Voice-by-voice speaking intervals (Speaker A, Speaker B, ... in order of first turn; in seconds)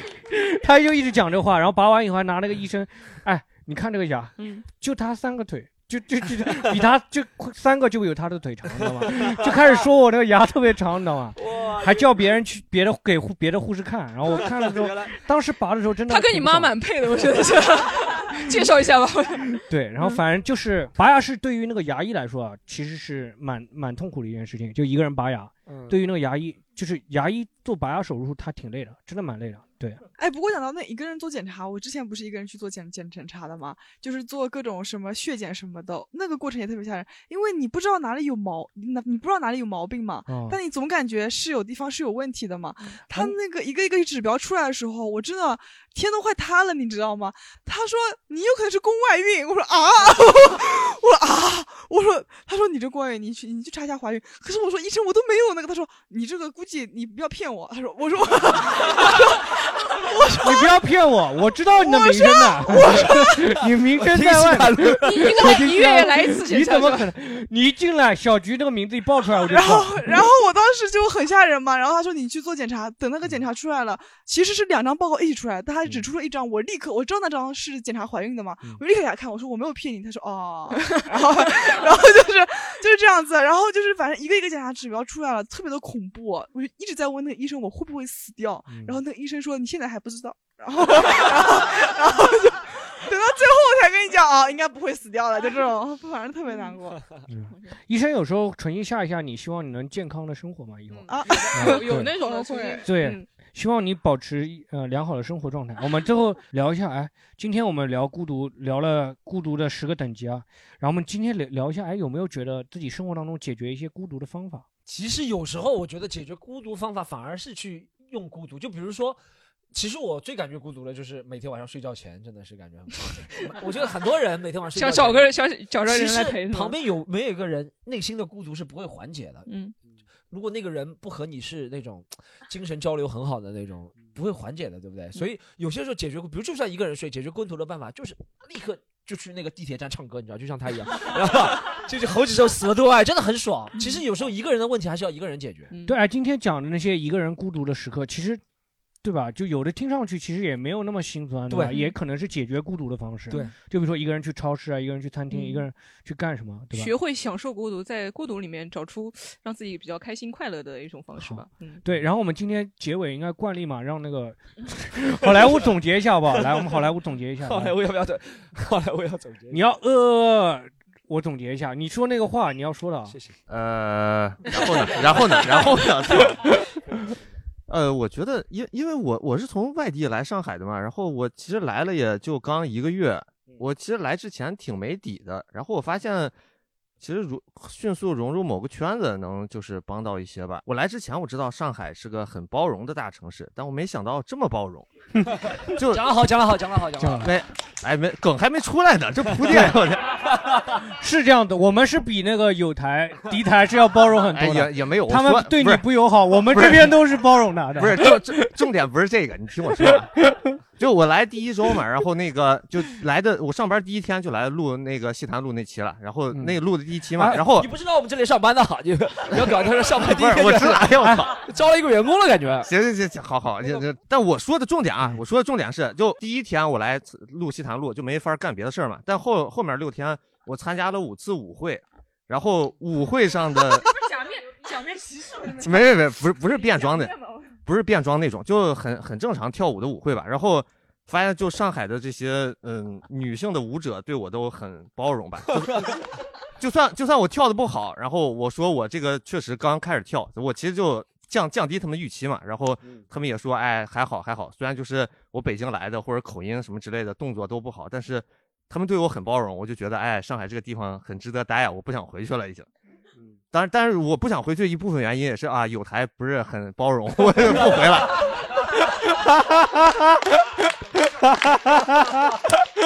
Speaker A: 0.3-16.7, 19.6-30.0, 40.3-40.6, 60.4-70.1, 88.7-89.0, 97.3-102.1, 102.8-114.7, 145.8-148.4, 149.0-156.9, 161.2-167.8, 169.5-173.2, 197.0-197.3, 199.4-199.8, 200.9-208.4, 216.3-216.6, 217.1-217.4, 221.0-221.3, 269.2-270.0, 271.1-272.4
Speaker B: 4.4-4.6, 16.1-20.2, 65.0-67.1, 80.8-81.1, 101.0-103.3, 124.7-126.8, 129.4-129.7, 145.7-146.0, 151.7-151.9, 155.3-155.7, 156.7-161.8
Speaker C: 8.9-9.7, 11.4-12.1, 14.3-15.1, 25.7-26.0, 64.0-65.5, 114.9-119.2, 119.7-129.5, 130.3-145.7, 151.5-151.8, 167.4-169.6, 173.1-173.3, 195.7-197.3, 217.4-222.7
Speaker D: 30.2-60.7, 61.7-63.4, 69.5-97.1, 101.1-102.8
Speaker E: 173.5-176.5, 177.7-186.3, 187.0-194.9, 195.7-196.0, 197.2-200.1, 204.3-206.9, 207.8-210.1, 210.8-217.7, 220.1-221.3, 222.7-233.9, 235.6-245.8, 246.6-262.6, 263.5-268.2